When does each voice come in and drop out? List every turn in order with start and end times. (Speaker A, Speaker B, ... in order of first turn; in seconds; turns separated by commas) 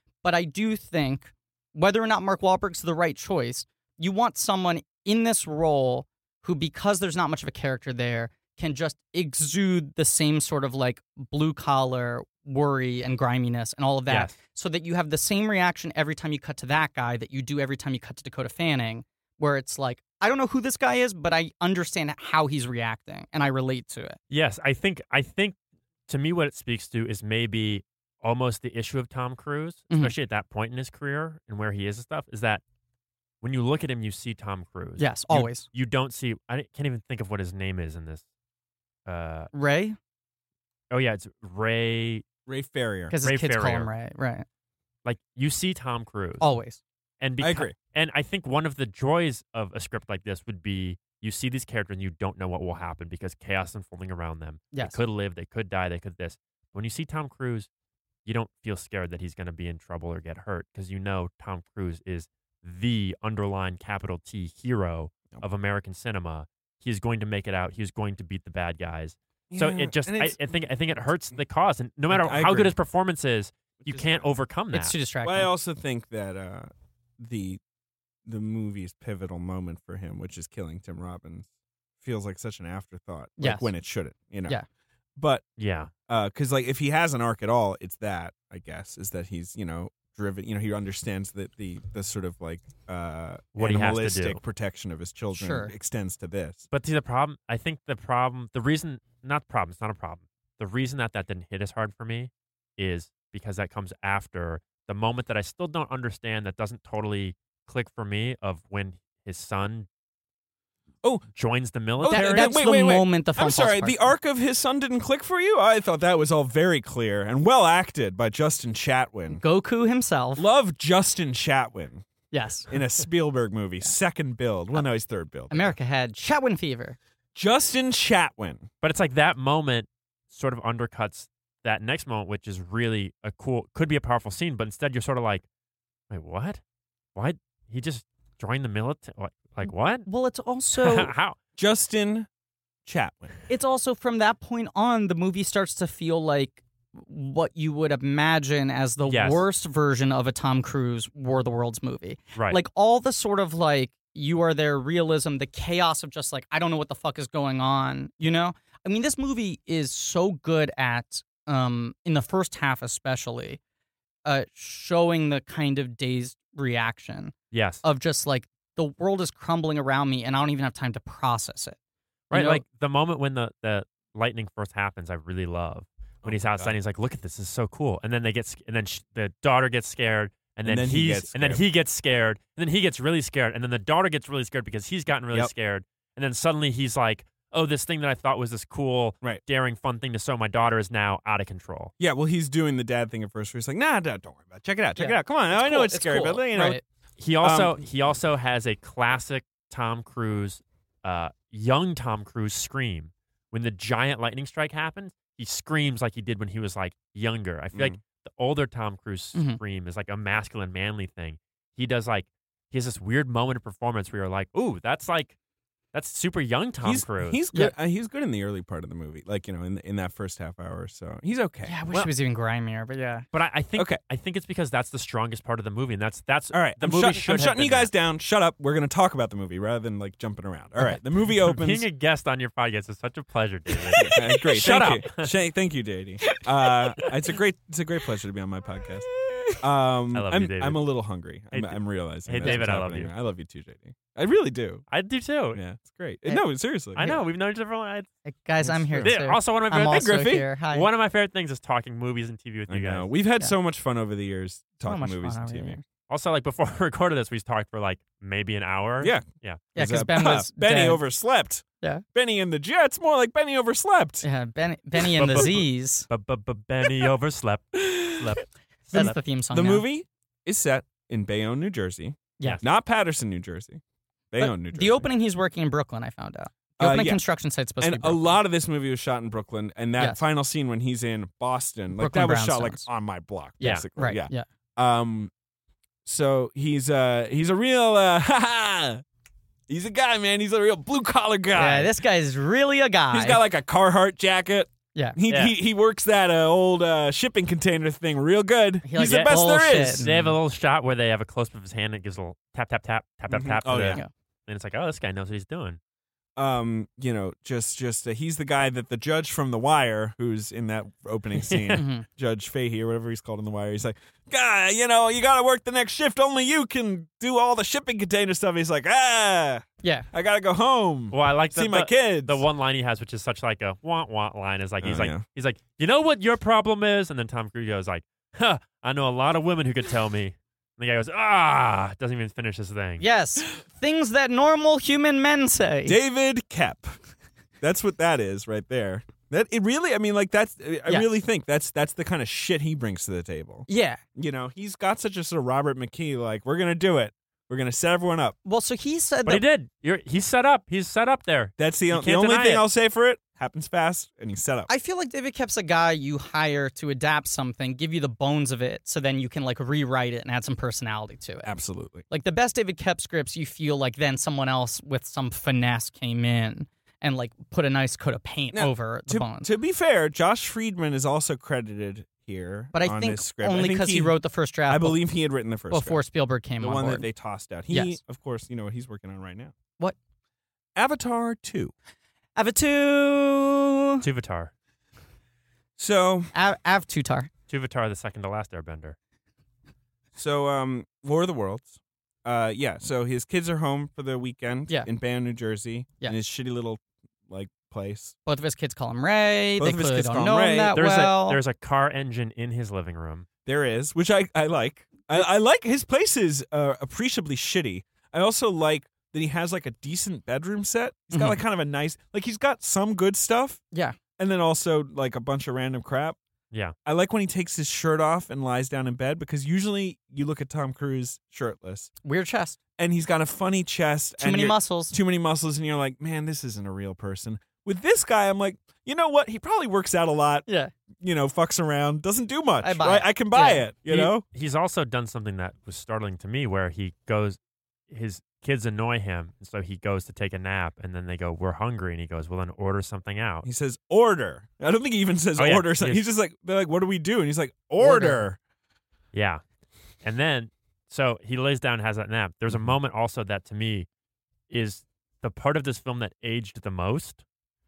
Speaker A: 0.2-24.2, Speaker B: 14.1-14.3, Speaker B: 24.3-25.6, Speaker B: 26.1-32.6, Speaker B: 33.4-38.2, Speaker A: 35.0-35.7, Speaker B: 39.1-39.5, Speaker A: 39.5-40.0, Speaker B: 40.9-42.2, Speaker C: 42.5-43.1, Speaker A: 43.1-44.5, Speaker B: 43.2-43.9, Speaker B: 45.0-46.5, Speaker A: 46.4-46.8, Speaker B: 47.2-57.7, Speaker C: 47.4-47.8, Speaker B: 58.2-75.0, Speaker C: 69.5-70.4, Speaker C: 72.1-72.7, Speaker C: 73.8-74.3, Speaker A: 74.7-75.5, Speaker C: 75.2-77.6, Speaker C: 78.3-81.5, Speaker C: 82.0-84.6, Speaker A: 83.4-83.7, Speaker C: 85.2-85.4, Speaker B: 85.6-85.9, Speaker C: 86.1-96.7, Speaker B: 93.6-94.4, Speaker A: 95.3-95.7, Speaker B: 96.7-109.9, Speaker B: 111.3-112.6, Speaker C: 112.0-119.4, Speaker A: 112.1-114.1, Speaker A: 119.3-120.5, Speaker C: 120.4-122.0, Speaker A: 122.3-122.7, Speaker C: 122.7-125.8, Speaker A: 125.5-127.0, Speaker C: 127.3-128.7, Speaker B: 128.8-135.4, Speaker B: 136.1-136.6, Speaker B: 137.2-140.1, Speaker A: 140.1-141.1, Speaker B: 140.8-141.4, Speaker C: 141.6-142.3, Speaker C: 142.8-143.3, Speaker A: 143.5-163.6, Speaker B: 149.1-149.4, Speaker A: 164.2-171.8, Speaker B: 167.5-167.8, Speaker B: 172.3-191.9, Speaker A: 172.3-172.6, Speaker C: 176.2-176.8, Speaker C: 180.7-181.6, Speaker C: 192.0-196.8, Speaker A: 195.0-196.8, Speaker B: 197.2-215.3, Speaker C: 197.4-197.8, Speaker B: 215.9-217.4, Speaker C: 216.8-221.8, Speaker A: 221.7-223.2, Speaker B: 223.3-227.9, Speaker C: 226.5-231.9, Speaker B: 231.4-235.3, Speaker C: 233.9-239.1, Speaker C: 239.6-244.8, Speaker B: 240.1-240.8, Speaker B: 241.5-243.1, Speaker A: 242.4-242.7, Speaker B: 244.9-245.6, Speaker C: 245.5-247.0, Speaker A: 247.0-247.2, Speaker B: 247.0-248.1, Speaker A: 248.2-250.9, Speaker C: 248.6-249.2, Speaker B: 249.0-253.1, Speaker C: 249.8-250.5, Speaker C: 252.7-255.8, Speaker A: 254.8-255.8, Speaker B: 256.1-259.7, Speaker C: 259.0-264.2, Speaker A: 259.8-261.0, Speaker A: 264.2-266.1, Speaker B: 265.1-269.2, Speaker C: 267.8-268.4, Speaker A: 268.9-269.9, Speaker C: 268.9-273.8, Speaker C: 274.3-275.1, Speaker A: 274.4-278.3, Speaker C: 276.8-277.2, Speaker C: 277.8-285.3, Speaker A: 281.9-282.9, Speaker A: 283.6-284.4, Speaker C: 286.1-289.0, Speaker C: 289.7-292.0, Speaker A: 291.5-293.4, Speaker C: 293.1-300.1, Speaker B: 295.3-295.5, Speaker A: 298.9-300.3, Speaker B: 299.0-305.8, Speaker C: 303.3-304.0, Speaker C: 306.4-322.4, Speaker B: 311.4-311.8, Speaker A: 311.8-312.1, Speaker B: 321.1-333.0, Speaker C: 324.8-325.2, Speaker A: 333.0-336.0, Speaker C: 335.9-337.0, Speaker C: 337.6-348.4, Speaker A: 343.7-344.0, Speaker A: 348.4-349.4, Speaker B: 349.2-352.6, Speaker C: 351.6-354.7, Speaker A: 354.7-361.5, Speaker C: 361.4-362.1, Speaker A: 362.1-369.5, Speaker C: 368.5-376.0, Speaker A: 372.7-375.0, Speaker A: 375.7-377.1, Speaker C: 376.6-379.5, Speaker A: 377.7-378.0, Speaker C: 380.8-381.7, Speaker A: 382.4-384.0, Speaker B: 384.0-384.5, Speaker C: 385.8-386.3, Speaker A: 386.3-387.3, Speaker B: 387.5-389.0, Speaker C: 390.1-398.2, Speaker A: 398.3-401.4, Speaker C: 399.6-400.8, Speaker B: 400.7-403.3, Speaker C: 403.5-413.6, Speaker A: 411.1-411.4, Speaker A: 413.7-414.0, Speaker C: 414.2-416.2, Speaker C: 416.9-421.9, Speaker A: 422.0-422.6, Speaker C: 422.8-430.5, Speaker A: 424.2-425.0, Speaker C: 431.0-434.2, Speaker A: 432.6-433.6, Speaker B: 433.9-437.4, Speaker B: 437.9-443.5, Speaker C: 443.4-448.4, Speaker B: 445.4-446.0, Speaker A: 447.8-448.2, Speaker B: 449.1-449.4, Speaker B: 450.0-453.9, Speaker B: 454.5-457.2